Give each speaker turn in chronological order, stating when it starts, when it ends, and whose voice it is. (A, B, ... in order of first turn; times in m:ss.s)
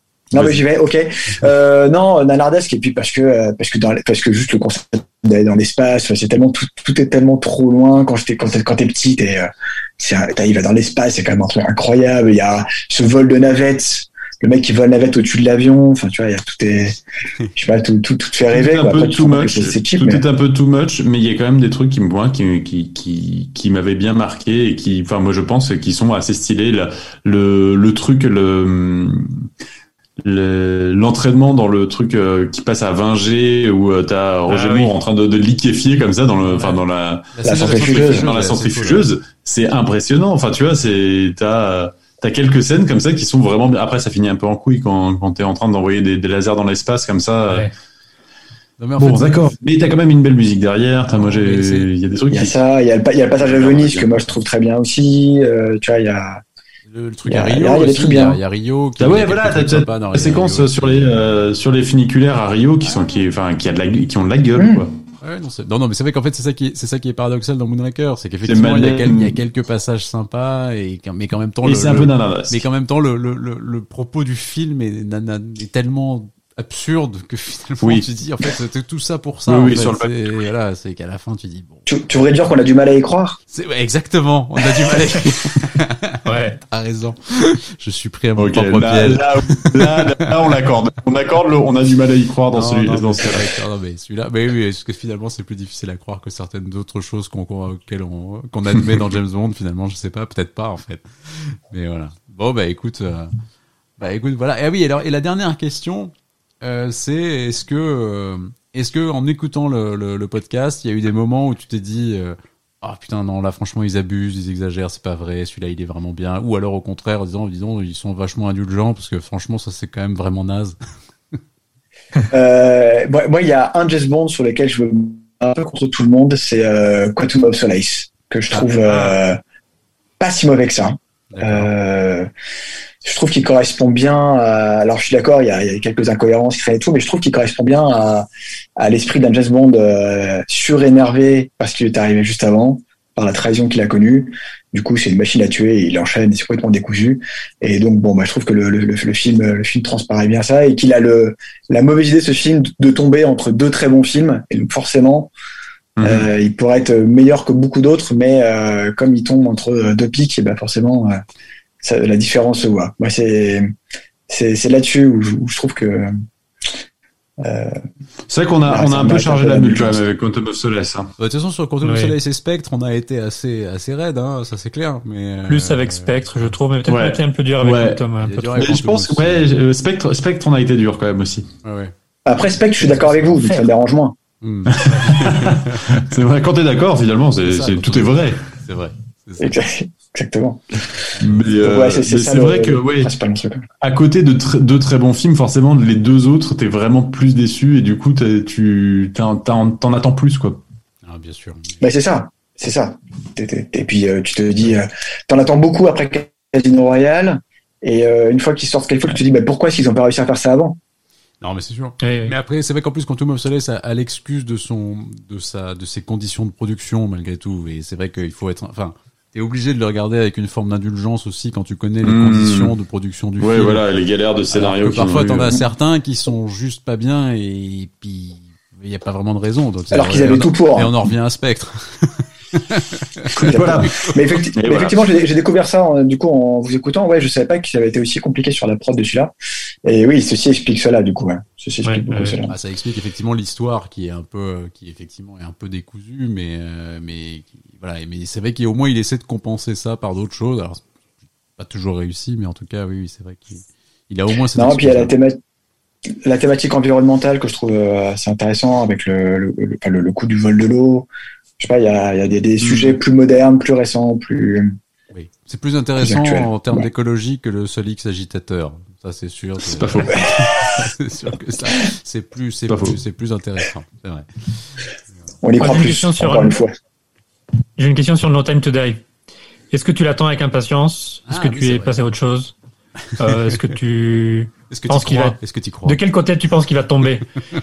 0:00.3-0:17.0 A
0:17.6-0:20.2 A
0:18.5-0:29.5 B
0:30.2-0:47.7 B
0:34.5-0:35.0 C
0:36.4-0:39.1 D
0:37.4-0:38.3 A
0:48.8-0:49.6 D
0:49.0-0:52.6 B
0:51.1-0:51.9 D
0:52.3-0:56.4 A
0:53.4-0:54.3 B
0:56.9-1:01.4 D
0:57.3-0:58.4 A
0:59.0-1:04.9 B
1:04.6-1:04.8 A
1:05.2-1:21.9 D
1:08.4-1:09.4 B
1:11.6-1:12.6 B
1:19.5-1:20.1 B
1:21.9-1:23.4 A
1:23.5-1:27.2 D
1:26.2-1:26.6 C
1:27.8-1:30.4 D
1:28.4-1:33.5 B
1:32.5-1:43.3 D
1:44.0-2:00.8 D
2:02.3-2:09.4 A
2:08.6-2:09.2 C
2:10.2-2:12.3 A
2:11.3-2:11.7 D
2:13.0-2:35.3 A
2:36.0-2:36.3 B
2:36.0-2:41.2 A
2:41.8-2:43.7 A
2:44.3-2:46.1 A
2:47.4-2:47.8 A
2:48.3-2:51.1 B
2:48.7-2:50.0 A
2:51.2-2:56.5 D
2:51.8-2:52.2 C
2:55.5-2:58.7 C
2:56.9-2:58.0 B
2:58.2-2:59.6 D
2:58.6-3:01.5 B
3:01.6-3:01.9 D
3:02.2-3:04.2 A
3:03.0-3:03.6 D
3:04.4-3:06.1 D
3:04.7-3:08.4 B
3:07.4-3:09.6 D
3:09.4-3:10.6 A
3:11.2-3:11.6 D
3:11.2-3:13.1 B
3:11.6-3:13.6 A
3:13.8-3:20.6 B
3:21.0-3:21.8 D
3:21.8-3:30.8 A
3:31.4-3:43.8 D
3:32.0-3:32.4 C
3:42.0-3:42.7 B
3:43.4-3:45.6 B
3:44.5-3:54.1 D
3:49.9-3:51.0 A
3:53.4-3:55.1 B
3:53.4-3:59.3 A
3:59.8-4:02.5 A
4:01.8-4:02.4 C
4:02.5-4:10.8 D
4:11.6-4:15.1 D
4:14.6-4:15.4 A
4:16.2-4:21.1 A
4:21.6-4:24.8 A
4:22.6-4:23.0 B
4:25.1-4:34.3 D
4:26.0-4:26.8 A
4:29.7-4:30.3 B
4:30.1-4:30.7 A
4:32.7-4:33.0 B
4:34.8-4:35.3 D
4:35.4-4:36.7 A
4:35.6-4:36.6 C
4:37.8-4:39.0 C
4:39.7-4:42.5 C
4:41.3-4:41.9 D
4:43.2-4:47.3 C
4:43.2-4:43.6 D
4:44.7-4:46.0 D